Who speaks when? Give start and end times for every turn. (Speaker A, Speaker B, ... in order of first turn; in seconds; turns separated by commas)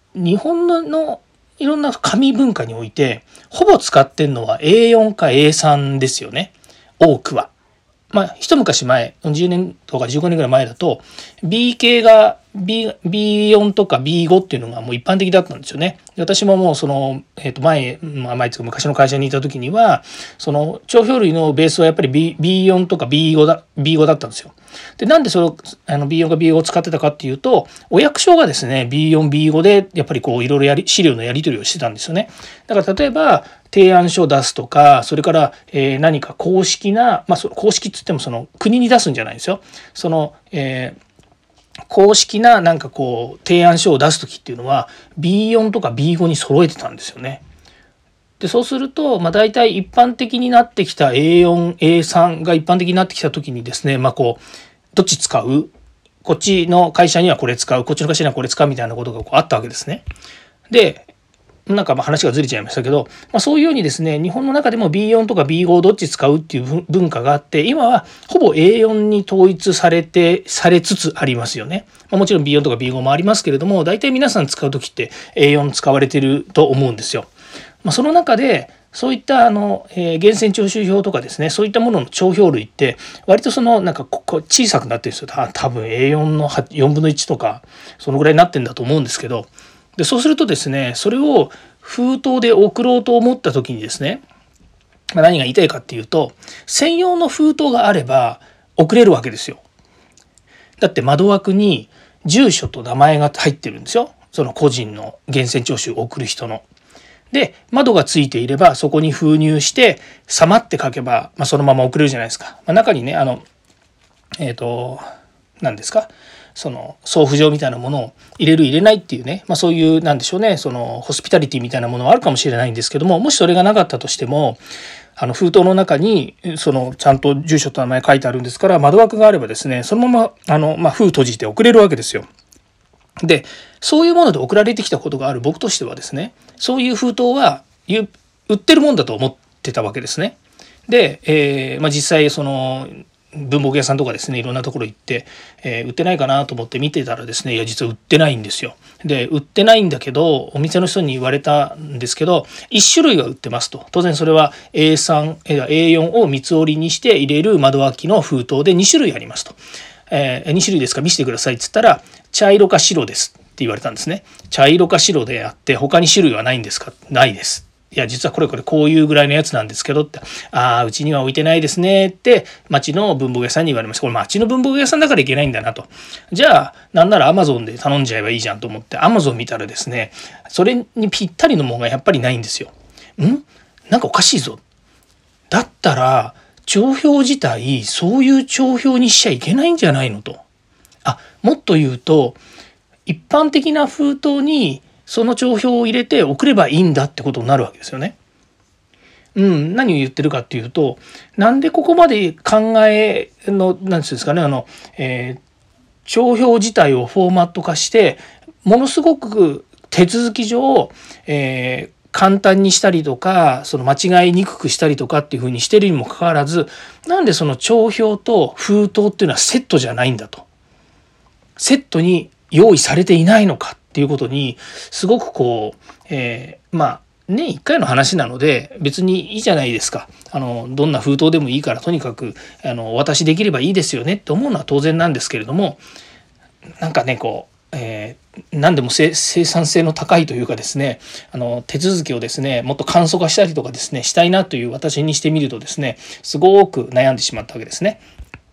Speaker A: 0.1-7.5, Speaker A: 8.1-41.0, Speaker A: 41.9-47.4, Speaker A: 48.4-54.4, Speaker A: 55.0-55.7, Speaker A: 56.2-60.0, Speaker A: 60.7-61.1, Speaker A: 61.7-77.3, Speaker A: 77.8-94.2, Speaker A: 95.1-99.6, Speaker A: 100.8-106.7, Speaker A: 107.3-113.4, Speaker A: 114.4-115.0, Speaker A: 115.6-124.6, Speaker A: 125.2-132.3, Speaker A: 133.2-159.6, Speaker A: 160.1-184.6, Speaker A: 185.5-190.4, Speaker A: 191.0-192.4, Speaker A: 193.1-198.2, Speaker A: 199.4-205.4, Speaker A: 206.1-220.5, Speaker A: 221.6-235.8, Speaker A: 236.8-248.0